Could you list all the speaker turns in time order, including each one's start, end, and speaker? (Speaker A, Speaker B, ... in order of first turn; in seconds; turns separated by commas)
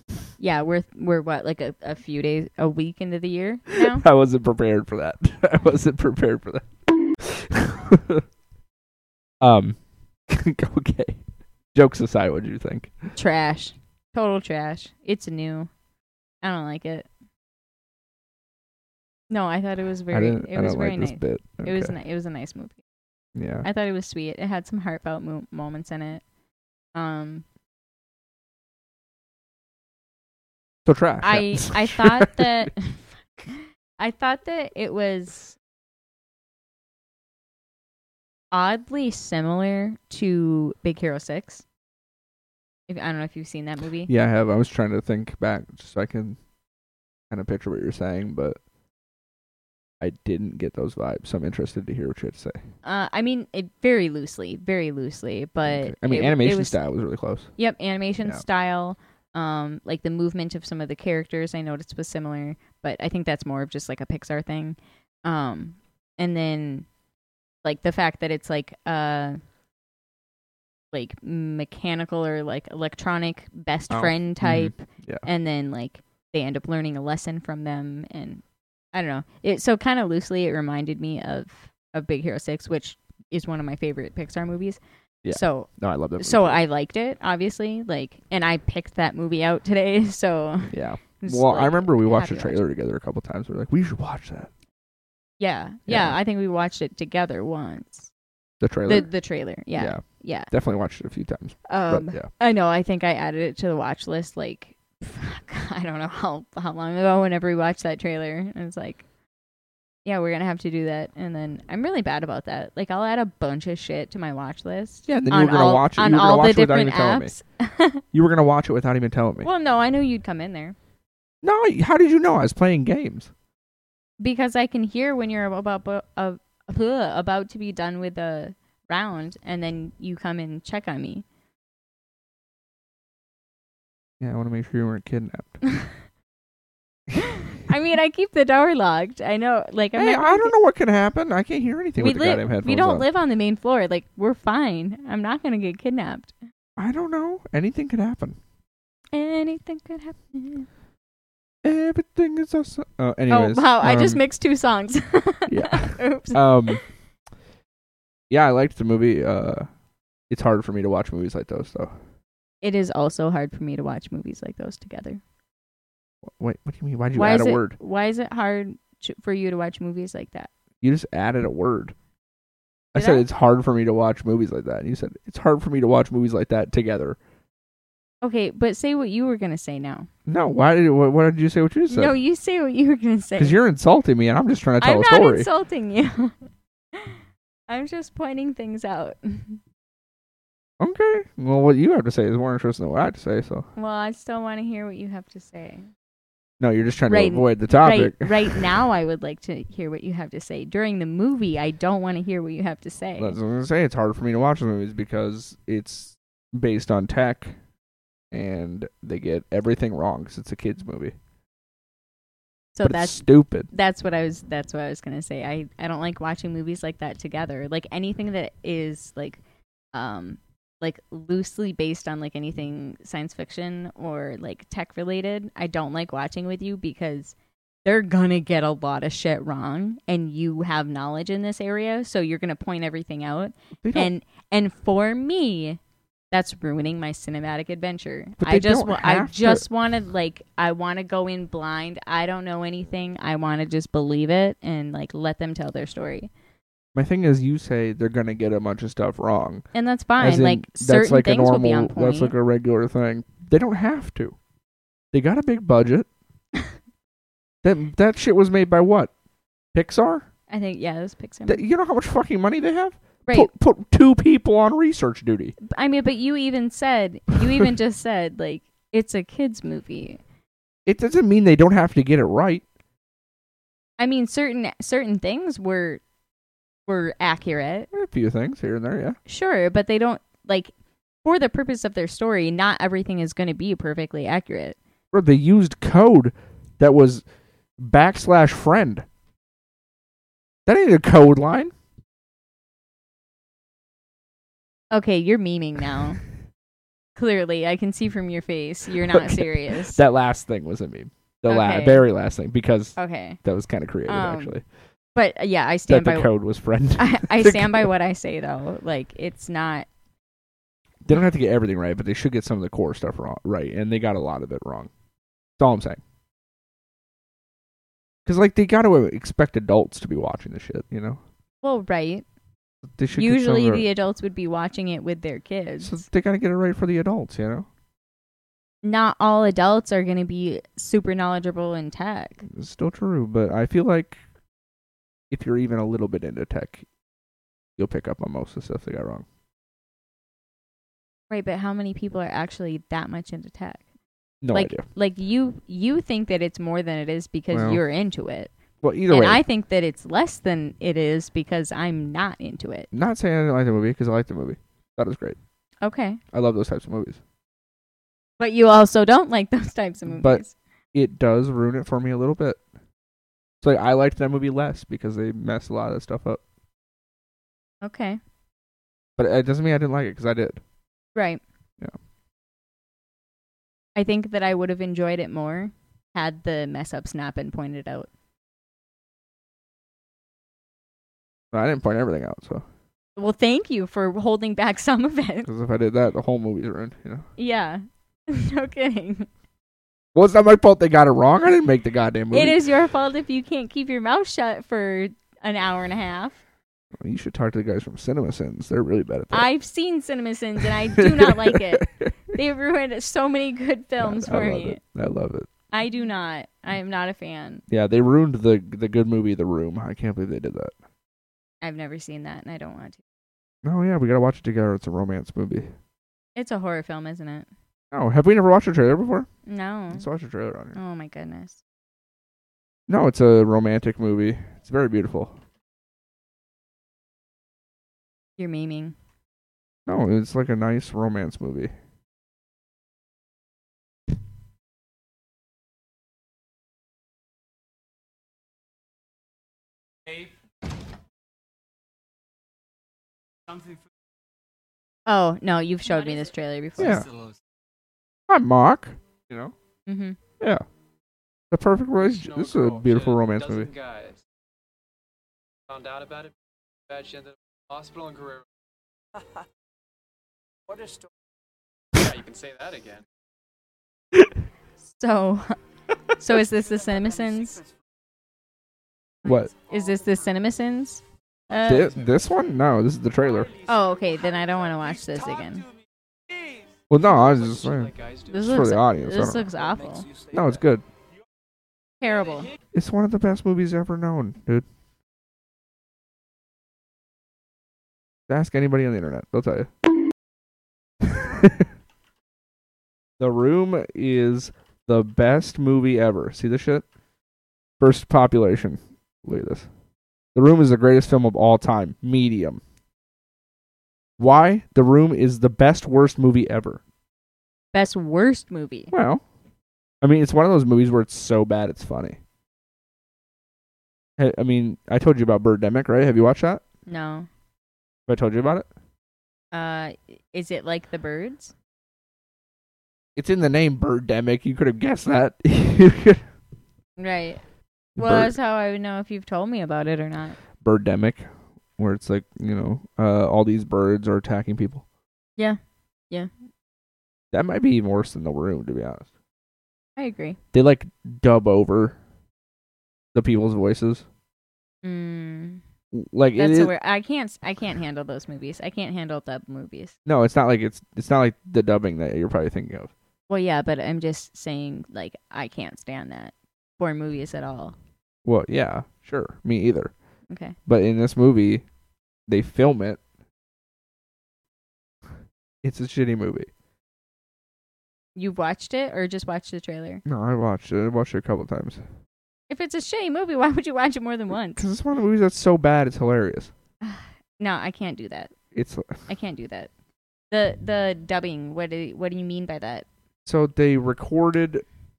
Speaker A: 0.4-4.0, Speaker B: 3.8-8.2, Speaker B: 9.4-11.2, Speaker B: 11.7-12.9, Speaker A: 13.2-15.7, Speaker A: 16.4-17.1, Speaker A: 19.3-22.8, Speaker B: 20.1-21.9, Speaker B: 23.4-23.7, Speaker A: 23.6-26.2, Speaker A: 26.9-27.4, Speaker B: 30.9-32.7, Speaker A: 31.2-35.6, Speaker A: 38.5-41.6, Speaker A: 42.9-44.1, Speaker B: 44.1-46.4, Speaker B: 47.3-48.6, Speaker B: 50.0-52.6, Speaker A: 52.8-56.8, Speaker B: 55.6-57.5, Speaker A: 57.6-66.9, Speaker A: 67.6-69.4, Speaker A: 70.9-78.4, Speaker B: 73.9-75.2, Speaker A: 78.9-85.7, Speaker B: 85.2-86.6, Speaker A: 86.2-92.6, Speaker B: 90.7-94.5, Speaker A: 95.4-98.1, Speaker B: 95.9-96.2, Speaker B: 98.6-99.1, Speaker A: 98.9-100.5, Speaker B: 99.8-102.3, Speaker A: 101.7-109.0, Speaker A: 110.0-118.0, Speaker B: 115.1-117.3, Speaker B: 118.1-119.5, Speaker A: 119.4-120.8, Speaker B: 121.4-123.3, Speaker A: 124.2-131.2, Speaker B: 134.2-135.6, Speaker A: 137.2-140.5, Speaker B: 140.0-143.1, Speaker A: 142.0-146.3, Speaker B: 146.8-148.4, Speaker A: 149.1-150.7, Speaker B: 151.6-154.2, Speaker A: 153.3-156.8, Speaker B: 155.5-156.8, Speaker B: 158.3-159.7, Speaker B: 160.3-161.9, Speaker A: 162.6-165.2, Speaker B: 166.3-167.8, Speaker A: 167.1-170.5, Speaker B: 170.8-171.9, Speaker B: 172.9-177.2, Speaker A: 172.9-173.2, Speaker A: 178.2-180.1, Speaker B: 180.3-182.1, Speaker A: 181.9-183.6, Speaker B: 183.4-185.5, Speaker A: 184.8-186.4, Speaker A: 186.9-189.6, Speaker B: 190.8-193.7, Speaker A: 193.8-195.9, Speaker B: 196.6-198.6, Speaker A: 197.1-203.4, Speaker B: 203.2-207.6, Speaker B: 208.3-211.2, Speaker A: 212.7-219.4, Speaker B: 212.8-213.7, Speaker A: 219.9-235.8, Speaker B: 233.8-234.1, Speaker A: 236.3-246.3, Speaker B: 238.4-239.7, Speaker B: 246.9-249.7, Speaker A: 249.7-252.3, Speaker B: 250.2-254.4, Speaker B: 255.1-256.1, Speaker B: 257.6-259.1, Speaker B: 259.7-260.3, Speaker A: 260.5-261.6, Speaker B: 261.5-265.6, Speaker A: 265.6-270.2, Speaker B: 270.9-272.6, Speaker A: 274.0-276.0, Speaker A: 276.9-277.9, Speaker B: 277.9-279.2, Speaker A: 279.3-280.7, Speaker A: 281.2-284.8, Speaker B: 285.1-287.2, Speaker B: 287.8-289.1, Speaker B: 290.7-291.7, Speaker A: 294.9-296.2, Speaker A: 297.2-300.0, Speaker B: 299.1-304.6, Speaker A: 301.5-302.1, Speaker A: 303.0-303.4, Speaker A: 304.1-304.6, Speaker A: 305.1-306.3, Speaker B: 305.9-307.9, Speaker A: 307.0-309.9, Speaker B: 311.1-314.9, Speaker B: 315.6-316.0, Speaker B: 318.3-321.2, Speaker A: 321.6-322.2, Speaker B: 323.0-323.9, Speaker A: 323.1-326.0, Speaker B: 325.8-327.7, Speaker A: 328.8-332.4, Speaker B: 332.5-334.2, Speaker B: 335.3-336.9, Speaker B: 337.8-339.2, Speaker A: 341.3-343.8, Speaker B: 344.4-344.9, Speaker A: 344.5-348.5, Speaker B: 347.5-347.8, Speaker B: 348.8-349.4, Speaker A: 349.1-352.9, Speaker B: 352.9-355.4, Speaker A: 355.8-356.2, Speaker B: 356.3-357.2, Speaker A: 358.4-360.6, Speaker B: 360.1-360.4, Speaker B: 360.9-362.6, Speaker B: 363.6-366.4, Speaker A: 367.8-368.2, Speaker B: 369.2-370.6, Speaker A: 371.1-371.4, Speaker A: 374.0-378.1, Speaker B: 381.5-382.6, Speaker A: 383.2-385.5, Speaker B: 385.5-387.3, Speaker A: 387.4-389.3, Speaker B: 390.1-392.6, Speaker A: 392.3-396.4, Speaker B: 397.0-399.5, Speaker A: 399.3-404.8, Speaker B: 400.9-402.1, Speaker B: 404.0-405.5, Speaker A: 405.7-407.6, Speaker B: 407.7-410.7, Speaker A: 411.6-413.0, Speaker B: 413.6-415.7, Speaker A: 416.4-417.5, Speaker B: 417.9-419.3, Speaker A: 419.5-420.1, Speaker B: 419.9-420.8, Speaker A: 420.8-421.6, Speaker B: 422.9-425.4, Speaker A: 428.4-428.9, Speaker B: 429.9-431.7, Speaker A: 445.1-447.1, Speaker B: 446.8-447.1, Speaker B: 448.3-449.5, Speaker A: 449.9-450.2, Speaker B: 451.5-453.7, Speaker C: 452.3-454.2, Speaker C: 455.7-456.3, Speaker C: 456.9-458.4, Speaker C: 462.0-463.0, Speaker A: 464.9-465.6, Speaker A: 466.2-467.6, Speaker B: 469.2-469.5, Speaker A: 469.5-471.9, Speaker B: 471.6-473.5, Speaker A: 473.7-475.7, Speaker B: 476.9-479.5, Speaker C: 477.3-478.3, Speaker A: 478.3-480.1, Speaker B: 480.3-480.8, Speaker A: 482.0-482.5, Speaker B: 482.7-484.7, Speaker B: 488.3-489.7, Speaker B: 491.0-491.7, Speaker B: 493.2-496.9, Speaker B: 497.8-499.7, Speaker B: 500.4-502.6, Speaker B: 504.2-506.8, Speaker A: 507.7-508.9, Speaker B: 508.9-509.2, Speaker B: 510.0-512.2, Speaker B: 514.2-516.6, Speaker A: 516.9-517.3, Speaker B: 518.1-518.7, Speaker A: 519.5-521.5, Speaker B: 523.2-526.2, Speaker A: 527.0-527.4, Speaker B: 528.0-528.3, Speaker A: 528.0-530.4, Speaker B: 530.6-531.2, Speaker B: 531.8-534.8, Speaker B: 537.3-539.1, Speaker A: 540.0-540.4, Speaker B: 540.5-542.0, Speaker B: 543.1-544.0, Speaker A: 544.8-545.6, Speaker B: 545.9-546.7, Speaker A: 546.4-550.0, Speaker B: 550.1-552.9, Speaker A: 553.3-557.8, Speaker B: 558.2-559.9, Speaker A: 560.3-560.6, Speaker B: 560.7-561.6, Speaker B: 562.3-563.0, Speaker B: 565.6-566.5, Speaker A: 568.2-570.0, Speaker B: 570.1-571.8, Speaker A: 572.5-574.6, Speaker B: 574.6-576.5, Speaker A: 576.8-578.3, Speaker B: 578.5-579.0, Speaker A: 579.1-579.7, Speaker A: 580.3-582.9, Speaker B: 583.2-584.6